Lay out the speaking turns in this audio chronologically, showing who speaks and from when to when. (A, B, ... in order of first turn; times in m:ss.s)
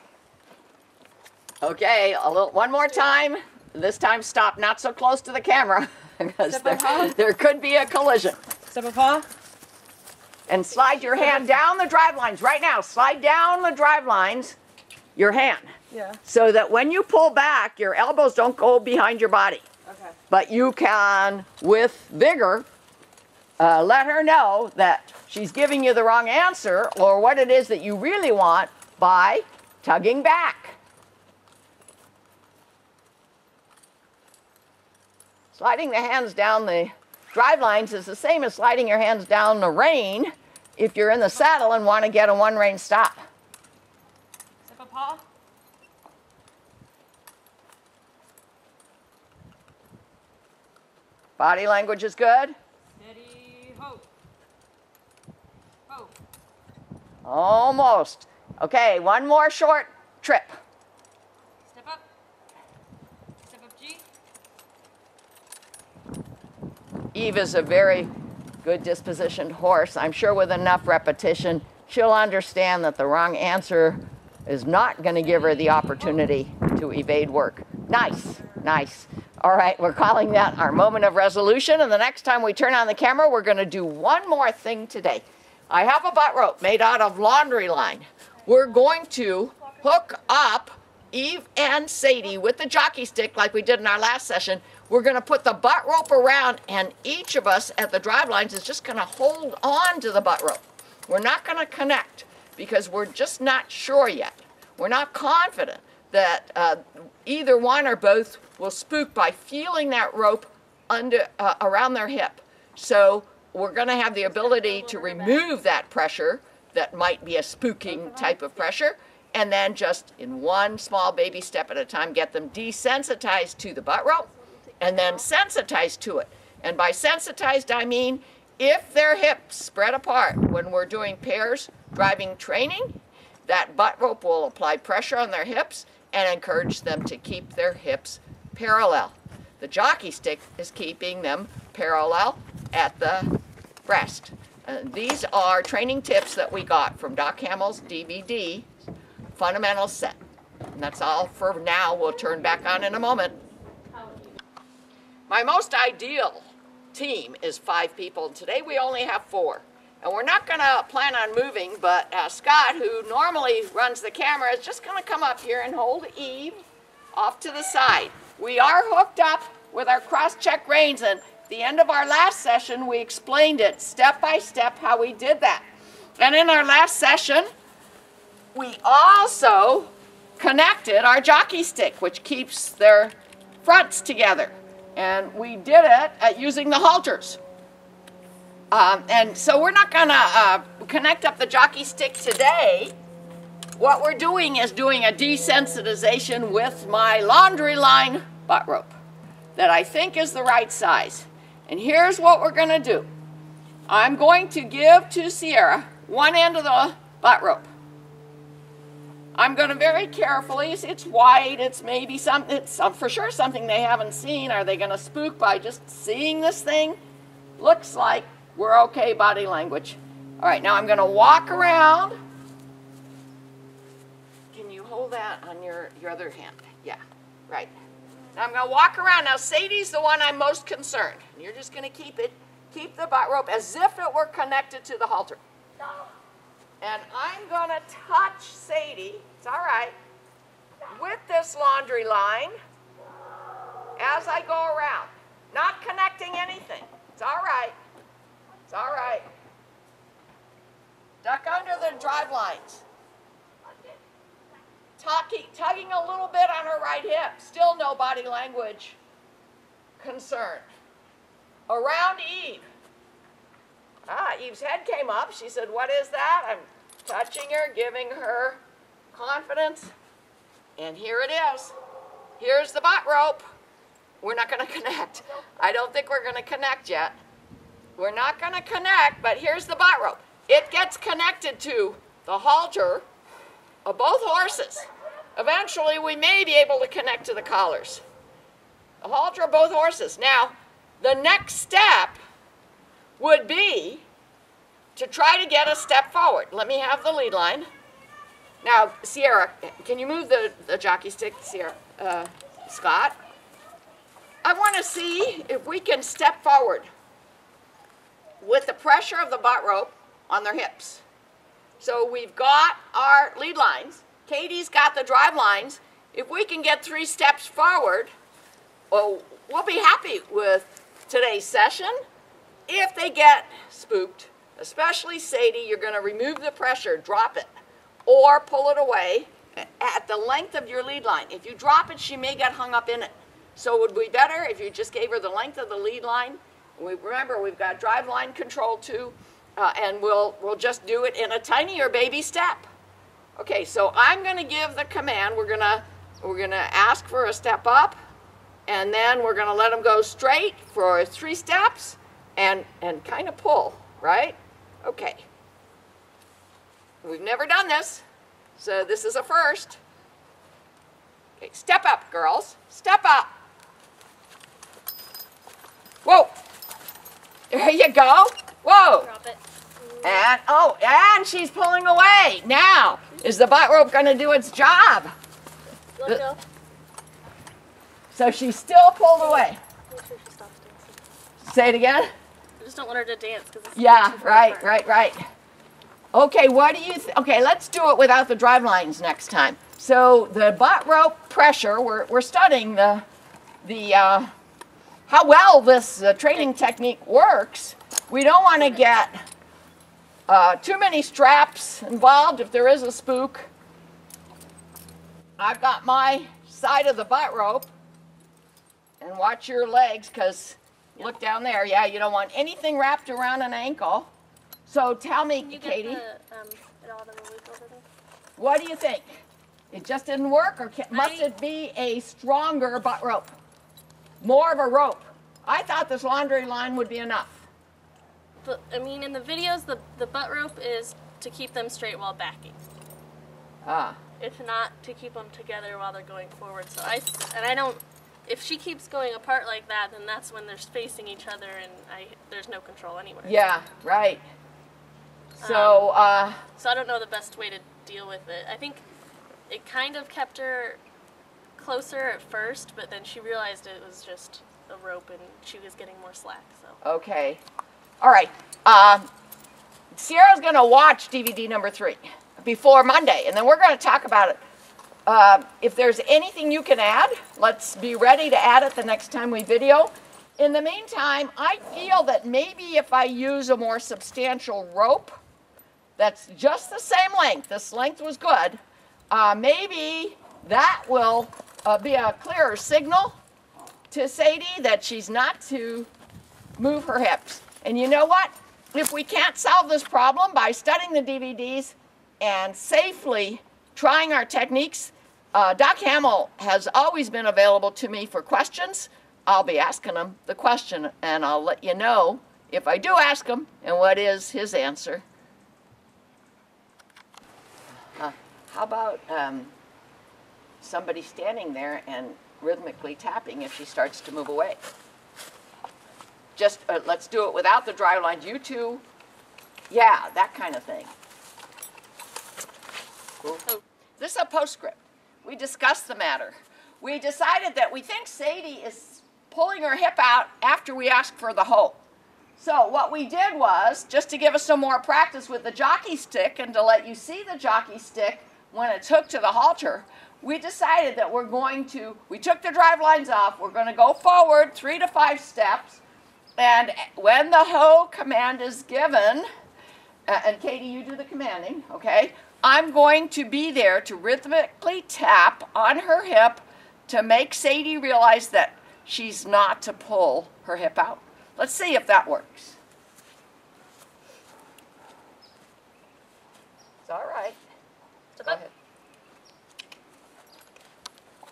0:01.6-0:08.4 A
0:06.4-0:07.2 B
0:08.7-0:09.3 B
0:10.5-0:14.6 A
0:15.2-0:15.7 A
0:15.9-0:16.2 B
0:16.2-0:19.6 A
0:19.9-0:20.1 B
0:20.3-0:22.7 A
0:23.6-0:30.8 A
0:35.5-0:43.2 A
0:44.7-0:45.2 B
0:51.4-0:52.6 A
0:53.0-0:54.1 B
0:55.9-0:56.1 B
0:57.2-1:00.6 A
1:01.6-1:02.0 B
1:03.4-1:04.0 B
1:07.1-1:08.1 A
1:08.6-2:04.3 A
1:15.1-1:16.3 B
1:54.3-1:55.4 C
1:58.1-1:58.3 B
2:04.8-2:12.9 A
2:13.5-2:23.3 A
2:23.8-2:28.7 A
2:29.4-2:30.2 A
2:30.8-2:33.4 A
2:33.9-2:34.4 C
2:35.3-2:46.6 A
2:47.2-2:55.6 A
2:56.2-2:57.5 A
2:58.5-3:07.4 A
3:08.7-3:12.9 A
3:13.8-3:18.9 A
3:19.6-3:23.1 A
3:23.9-3:27.7 A
3:29.4-3:37.0 A
3:37.6-3:42.1 A
3:44.5-3:47.7 A
3:48.4-3:55.4 A
3:56.8-4:00.0 A
4:00.9-4:02.6 A
4:04.0-4:07.8 A
4:08.7-4:09.3 A
4:11.2-4:12.8 A
4:15.0-4:19.0 A
4:20.0-4:20.6 A
4:21.7-4:22.6 A
4:24.1-4:28.6 A
4:29.1-4:29.9 A
4:30.8-4:31.7 A
4:32.4-4:33.4 A
4:34.2-4:37.2 A
4:38.0-4:43.1 A
4:43.8-4:44.8 A
4:45.4-4:48.0 A
4:49.0-4:52.2 A
4:53.2-4:54.0 A
4:55.0-4:57.7 A
4:58.6-5:03.2 A
5:04.4-5:06.9 A
5:08.4-5:11.0 A
5:11.8-5:18.1 A
5:18.9-5:22.0 A
5:22.7-5:27.5 A
5:28.1-5:42.7 A
5:43.4-5:48.0 A
5:48.7-5:55.2 A
5:57.0-5:58.0 A
5:58.6-5:59.8 A
6:01.4-6:03.3 A
6:06.0-6:06.3 A
6:07.5-6:09.1 A
6:09.0-6:10.3 C
6:10.0-6:15.1 A
6:16.0-6:16.4 C
6:18.1-6:19.6 A
6:19.2-6:21.0 C
6:21.4-6:22.1 A
6:22.6-6:24.8 C
6:23.8-6:25.2 A
6:26.1-6:33.0 A
6:33.6-6:34.3 A
6:35.1-6:39.2 A
6:40.3-6:43.5 A
6:45.4-6:47.7 A
6:49.0-6:54.1 A
6:54.7-6:56.0 A
6:55.4-6:57.8 C
6:58.4-6:59.1 A
6:59.7-7:03.3 A
7:00.9-7:01.3 C
7:04.2-7:07.4 A
7:08.4-7:12.6 C
7:13.7-7:14.0 A
7:14.2-7:23.4 C
7:23.2-7:24.2 A
7:25.4-7:25.9 C
7:25.4-7:26.4 A
7:26.6-7:28.8 C
7:29.5-7:30.8 C
7:31.6-7:36.8 C
7:36.8-7:37.4 A
7:38.0-7:39.1 A
7:39.9-7:44.4 A
7:45.1-7:55.2 A
7:56.0-7:58.6 A
7:59.1-8:03.2 A
8:03.9-8:05.9 A
8:06.6-8:25.0 A
8:28.0-8:29.5 A
8:30.6-8:34.6 A
8:36.4-8:38.8 A
8:39.7-8:40.9 A
8:44.0-8:51.8 A
8:52.4-9:05.8 A
9:06.4-9:09.3 A
9:10.1-9:22.6 A
9:26.8-9:27.4 A
9:28.2-9:28.5 A